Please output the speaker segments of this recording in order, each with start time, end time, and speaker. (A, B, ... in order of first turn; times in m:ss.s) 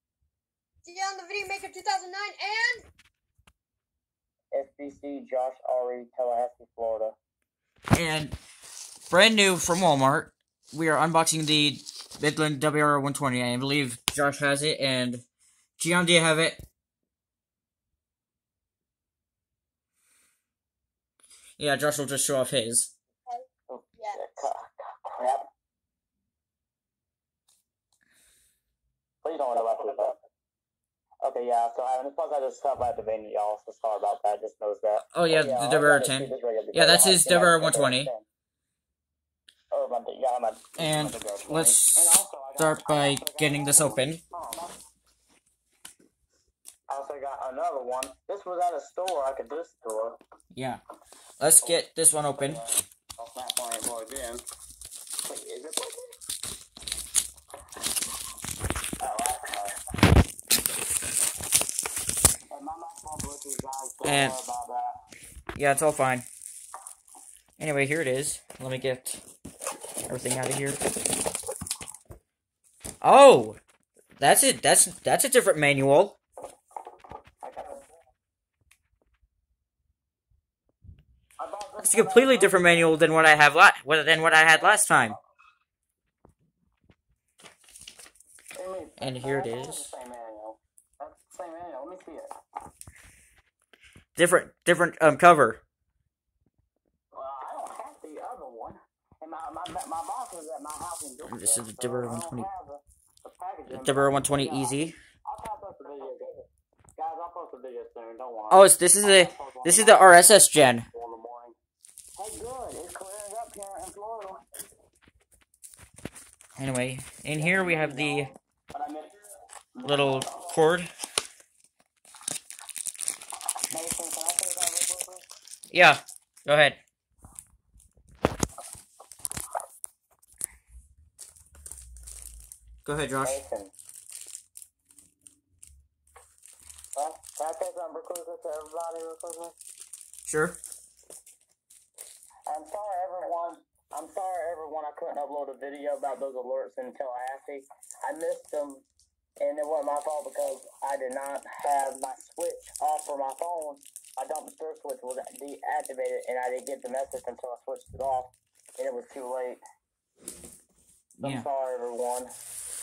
0:00.8-0:02.8 A
0:04.5-0:07.2 B
0:07.9-0:08.4 C
0:09.1-0:15.2 C
0:15.8-0:16.6 C
0:21.6-0:22.9 C
0:23.7-0:25.5 B
0:24.0-0:24.4 A
0:29.2-0:30.1 B
0:31.2-0:38.2 B
0:35.1-0:38.1 C
0:39.7-0:44.6 B
0:40.8-0:44.2 C
0:46.9-0:50.2 B
0:50.5-0:50.8 C
0:51.4-0:52.6 C
0:52.4-0:54.4 B
0:55.2-0:56.1 B
0:59.0-0:59.8 B
1:02.5-1:05.0 B
1:04.0-1:04.4 C
1:05.5-1:06.2 C
1:07.6-1:09.2 C
1:10.0-1:10.8 C
1:13.0-1:13.6 C
1:14.2-1:16.2 C
1:17.4-1:17.8 B
1:21.4-1:23.1 B
1:21.8-1:25.2 C
1:24.1-1:25.2 B
1:28.6-1:32.3 B
1:29.0-1:29.9 C
1:34.2-1:35.6 C
1:37.1-1:46.4 B
1:41.2-1:42.5 C
1:43.7-1:45.0 C
1:47.0-1:51.6 B
1:48.5-1:50.8 C
1:52.2-1:54.4 B
1:56.6-1:58.3 C
1:57.3-1:59.2 B
1:59.7-2:00.5 B
1:59.8-2:00.9 C
2:03.7-2:05.2 B
2:05.7-2:06.8 C
2:12.8-2:13.4 C
2:13.2-2:13.7 B
2:17.0-2:19.5 B
2:20.2-2:20.6 C
2:22.5-2:28.8 B
2:29.4-2:39.6 B
2:41.2-2:42.3 B
2:41.2-2:41.5 C